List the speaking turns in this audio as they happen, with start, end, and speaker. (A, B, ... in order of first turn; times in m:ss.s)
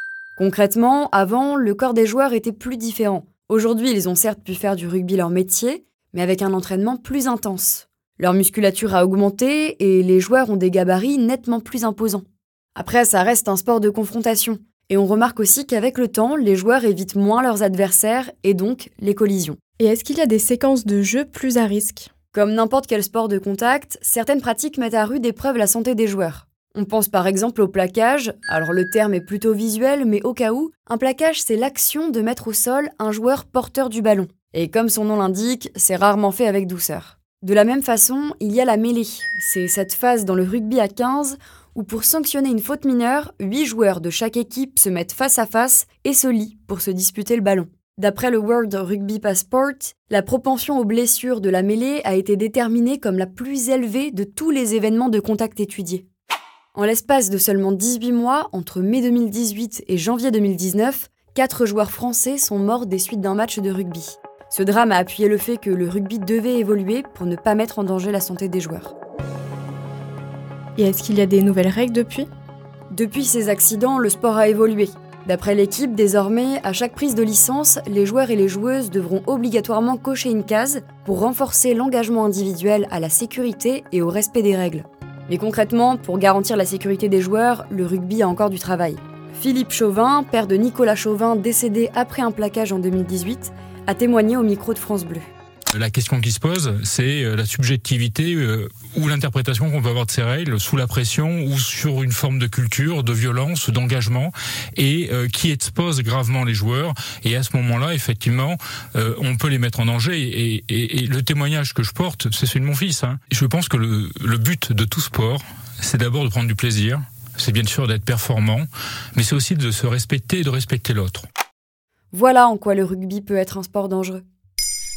0:00.4-0:19.6 A
0:19.8-0:22.1 B
0:22.3-0:56.1 A
0:56.8-1:08.9 A
1:10.8-1:12.3 B
1:12.9-1:35.3 A
1:35.7-2:01.3 C
2:02.1-2:04.2 A